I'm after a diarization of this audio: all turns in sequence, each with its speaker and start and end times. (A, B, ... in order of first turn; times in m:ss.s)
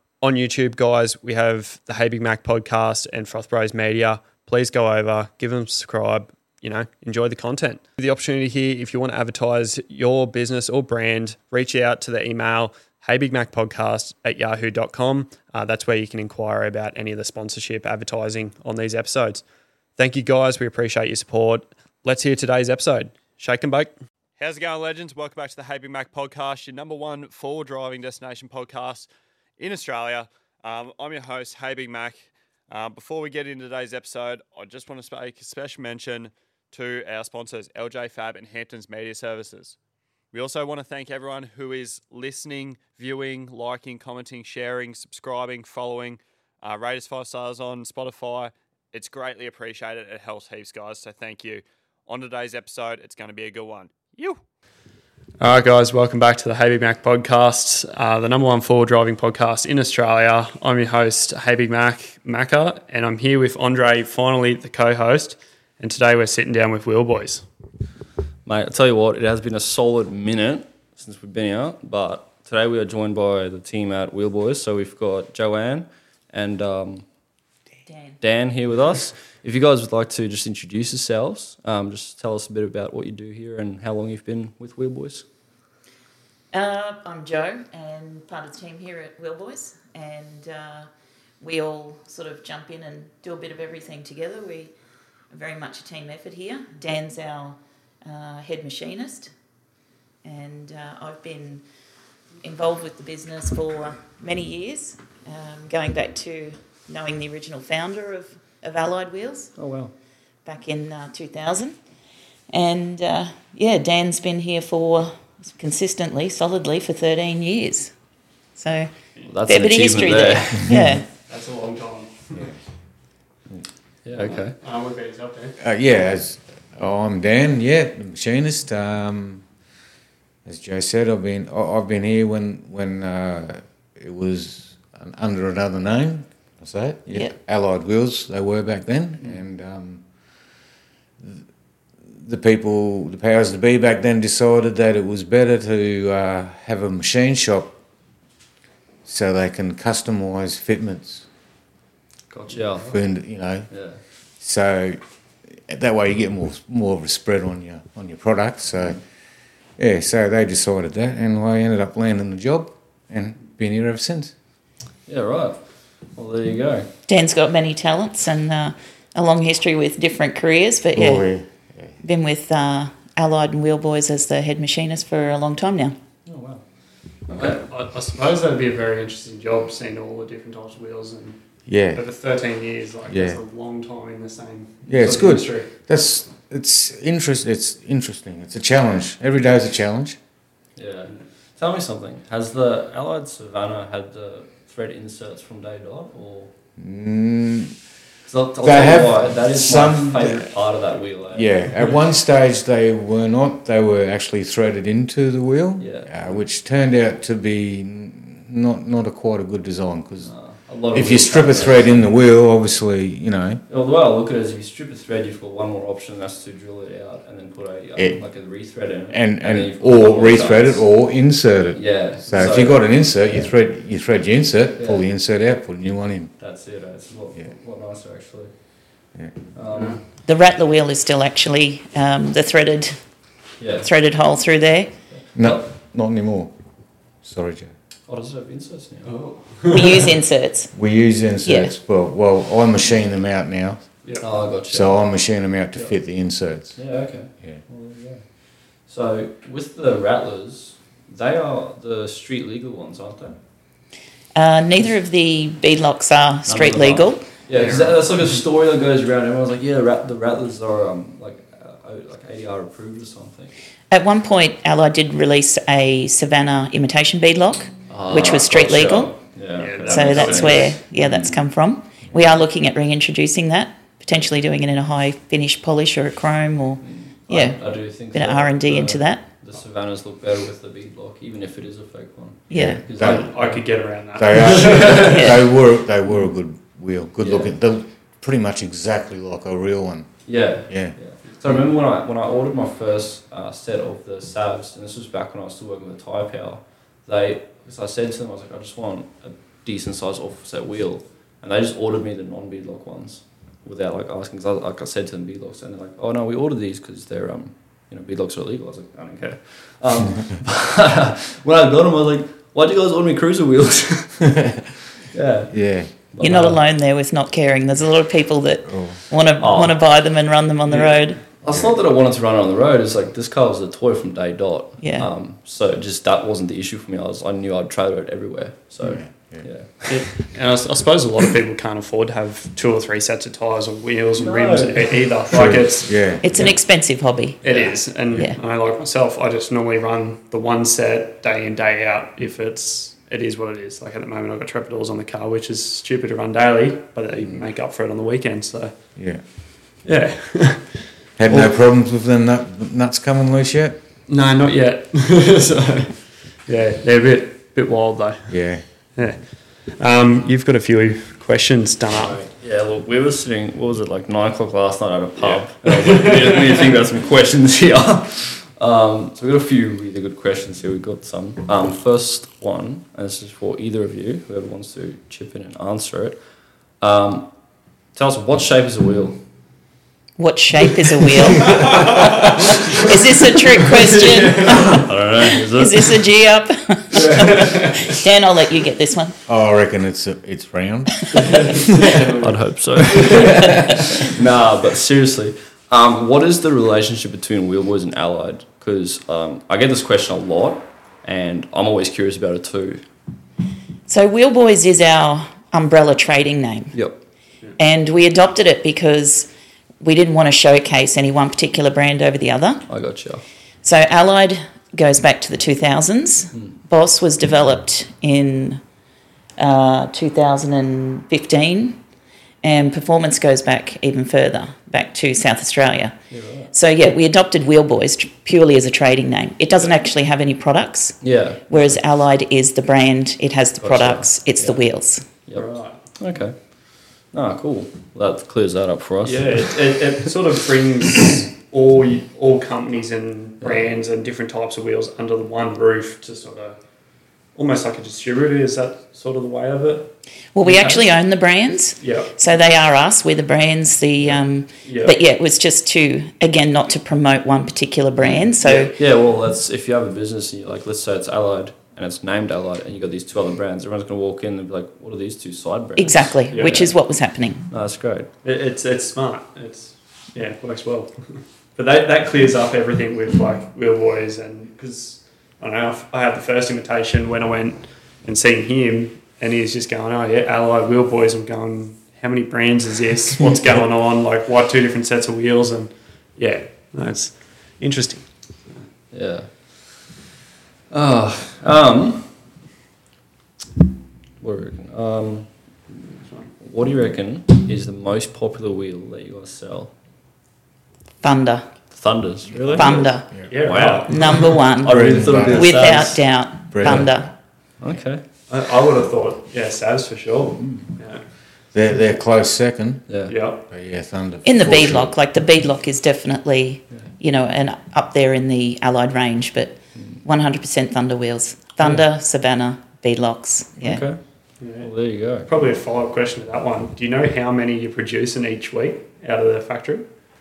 0:00.2-0:19.4 A
0:20.0-0:29.1 A
0:29.6-0:39.8 A
0:40.3-0:54.4 A
0:55.4-1:07.4 A
1:08.4-1:17.0 B
1:17.9-1:18.2 C
1:18.2-1:25.2 B
1:26.5-1:30.9 C
1:31.4-1:34.7 C
1:35.3-1:39.3 C
1:40.2-1:41.6 C
1:42.4-1:49.5 C
1:49.6-1:49.9 B
1:50.4-1:51.8 C
1:52.5-1:57.9 C
1:58.6-1:58.9 C
1:59.2-2:00.9 B
1:59.5-2:01.0 C
2:00.7-2:01.0 D
2:01.3-2:02.4 A
2:03.5-2:04.6 B
2:04.2-2:05.5 A
2:05.6-2:09.4 D
2:10.4-2:20.0 D
2:22.1-2:27.7 D
2:29.0-2:31.2 D
2:32.3-2:33.0 B
2:32.9-2:33.7 D
2:33.7-2:34.0 B
2:34.4-2:35.0 D
2:35.5-2:39.0 D
2:39.8-2:44.3 D
2:45.1-2:45.6 B
2:46.1-2:46.9 B
2:47.1-2:51.3 C
2:50.9-2:51.9 D
2:52.0-2:56.0 C
2:56.2-2:56.6 B
2:57.2-2:57.6 B
2:57.3-3:01.4 A
3:01.7-3:02.0 D
3:01.9-3:05.7 A
3:03.1-3:03.4 D
3:04.9-3:10.2 D
3:10.8-3:16.5 B
3:16.8-3:17.7 D
3:18.3-3:21.6 B
3:18.6-3:20.5 D
3:21.3-3:30.3 D
3:25.8-3:26.3 B
3:30.2-3:32.0 B
3:30.9-3:33.6 D
3:33.7-3:40.8 B
3:39.1-3:46.3 D
3:41.7-3:42.8 B
3:44.8-3:45.0 B
3:46.4-3:48.5 B
3:49.5-3:50.0 B
3:50.2-3:53.0 C
3:53.6-3:53.9 B
3:53.8-3:54.9 C
3:55.1-3:55.6 B
3:55.3-3:56.5 D
3:57.2-3:57.7 D
3:58.1-3:59.2 B
3:59.0-4:00.1 A
3:59.7-4:00.7 C
4:00.7-4:03.8 D
4:01.4-4:01.7 C
4:04.0-4:04.4 A
4:04.2-4:04.9 B
4:04.7-4:06.8 D
4:06.8-4:08.2 B
4:08.8-4:13.4 B
4:14.3-4:17.3 C
4:16.5-4:23.5 B
4:17.5-4:18.0 A
4:23.9-4:29.1 C
4:27.9-4:31.4 B
4:29.6-4:30.8 A
4:29.9-4:37.6 C
4:36.8-4:43.6 B
4:38.1-4:39.2 C
4:42.5-4:43.3 D
4:42.5-4:42.8 C
4:43.0-4:45.2 A
4:44.2-4:51.0 D
4:44.3-4:45.3 B
4:45.0-4:45.5 C
4:47.2-4:47.5 B
4:50.2-5:16.6 B
5:14.2-5:14.6 D
5:15.5-5:15.9 D
5:16.2-5:21.2 C
5:18.7-5:19.0 D
5:19.4-5:19.8 B
5:20.7-5:29.9 B
5:24.8-5:25.1 C
5:28.8-5:29.5 D
5:29.9-5:36.0 A
5:34.2-5:35.0 B
5:35.3-5:36.5 D
5:36.2-5:37.4 C
5:37.4-5:48.7 A
5:37.4-5:37.7 B
5:38.1-5:38.4 C
5:49.0-5:49.2 D
5:49.8-5:51.4 A
5:51.2-5:53.8 D
5:54.1-5:58.4 A
5:58.3-5:58.6 D
5:59.0-6:02.2 A
6:01.9-6:16.2 B
6:05.2-6:06.6 A
6:16.8-6:17.3 B
6:17.9-6:19.2 B
6:20.2-6:29.2 C
6:21.5-6:22.8 A
6:24.0-6:24.8 A
6:24.5-6:26.1 B
6:27.0-6:27.9 A
6:29.3-6:31.6 D
6:31.1-6:33.3 A
6:32.2-6:42.8 B
6:33.2-6:33.7 C
6:43.9-6:46.8 C
6:46.7-6:47.0 B
6:47.6-6:49.3 C
6:49.8-6:52.7 C
6:52.7-6:53.2 B
6:53.6-6:58.6 C
6:59.4-7:01.8 C
7:02.4-7:06.0 C
7:06.1-7:06.5 B
7:06.5-7:15.0 C
7:11.0-7:11.8 B
7:13.6-7:19.6 B
7:15.3-7:15.8 A
7:19.0-7:26.6 A
7:27.3-7:29.9 A
7:30.3-7:38.7 C
7:30.4-7:30.8 B
7:31.8-7:32.1 A
7:34.0-7:35.0 A
7:38.0-7:46.7 B
7:38.4-7:38.7 A
7:45.8-7:47.5 C
7:46.3-7:46.7 A
7:47.5-7:48.1 B
7:48.2-8:08.0 A
8:08.9-8:10.0 B
8:10.7-8:12.1 B
8:14.2-8:15.3 B
8:16.4-8:19.7 B
8:21.0-8:21.5 C
8:21.7-8:26.1 B
8:22.3-8:23.3 D
8:22.5-8:23.1 C
8:23.3-8:24.3 A
8:23.9-8:27.1 C
8:24.6-8:25.7 D
8:26.5-8:26.9 D
8:26.6-8:26.9 B
8:27.6-8:28.0 B
8:28.3-8:31.0 A
8:31.5-8:34.9 D
8:32.9-8:33.1 B
8:33.1-8:33.4 A
8:34.2-8:43.8 C
8:39.7-8:40.0 B
8:43.6-8:44.0 B
8:44.4-8:44.7 A
8:44.6-8:45.3 B
8:45.2-8:49.8 A